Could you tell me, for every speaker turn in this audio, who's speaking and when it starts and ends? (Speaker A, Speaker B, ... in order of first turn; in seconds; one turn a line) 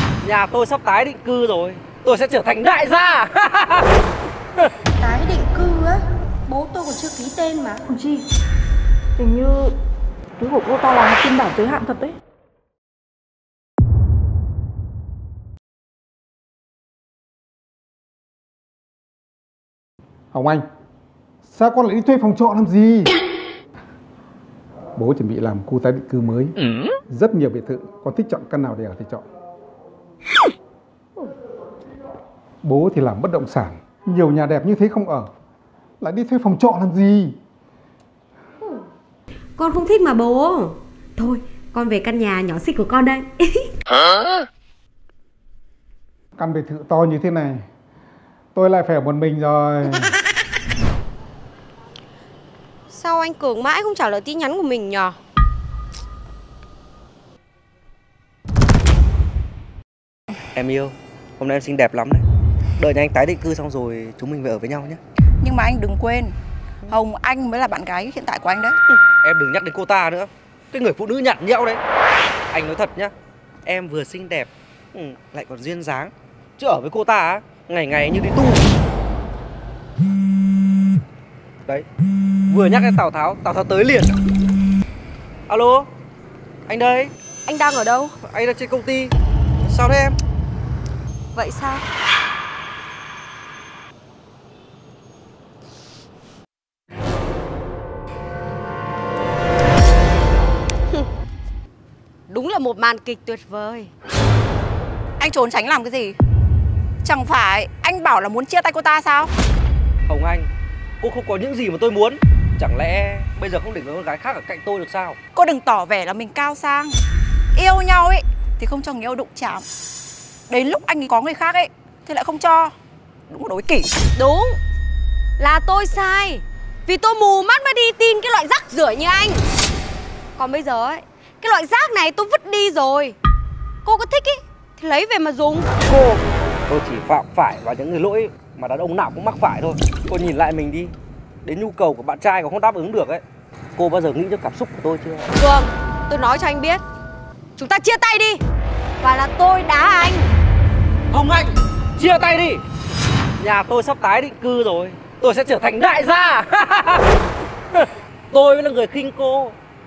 Speaker A: 0.2-3.9
Speaker B: 5.0-7.8
Speaker C: 7.9-8.2
Speaker C: 9.2-9.7
Speaker C: 10.4-12.2
Speaker D: 20.3-20.6
Speaker D: 21.5-23.1
Speaker D: 25.0-26.6
Speaker D: 27.1-29.2
Speaker D: 32.6-35.3
Speaker D: 36.0-37.4
Speaker E: 39.6-43.7
Speaker D: 46.4-47.6
Speaker D: 48.5-50.1
Speaker E: 52.9-55.2
Speaker A: 60.5-62.2
Speaker A: 62.8-65.0
Speaker F: 65.4-66.3
Speaker F: 66.9-68.8
Speaker A: 68.9-71.8
Speaker A: 72.5-73.1
Speaker A: 73.6-78.6
Speaker A: 82.5-84.2
Speaker A: 85.5-85.9
Speaker A: 86.7-87.1
Speaker E: 87.5-88.1
Speaker A: 88.2-89.1
Speaker A: 89.6-90.2
Speaker E: 91.3-91.8
Speaker E: 102.3-103.9
Speaker F: 105.2-106.1
Speaker F: 107.0-109.3
Speaker A: 110.1-110.5
Speaker A: 111.0-115.2
Speaker F: 115.3-117.0
Speaker F: 117.5-119.6
Speaker F: 120.5-122.7
Speaker F: 123.3-123.9
Speaker E: 124.2-124.6
Speaker E: 125.4-129.4
Speaker E: 130.4-133.2
Speaker E: 133.9-135.7
Speaker A: 135.9-143.2
Speaker A: 143.8-145.3
Speaker E: 145.4-146.8
Speaker E: 147.6-148.4
Speaker E: 149.0-150.3
Speaker A: 151.1-152.6
Speaker A: 153.4-157.1
Speaker A: 157.8-159.6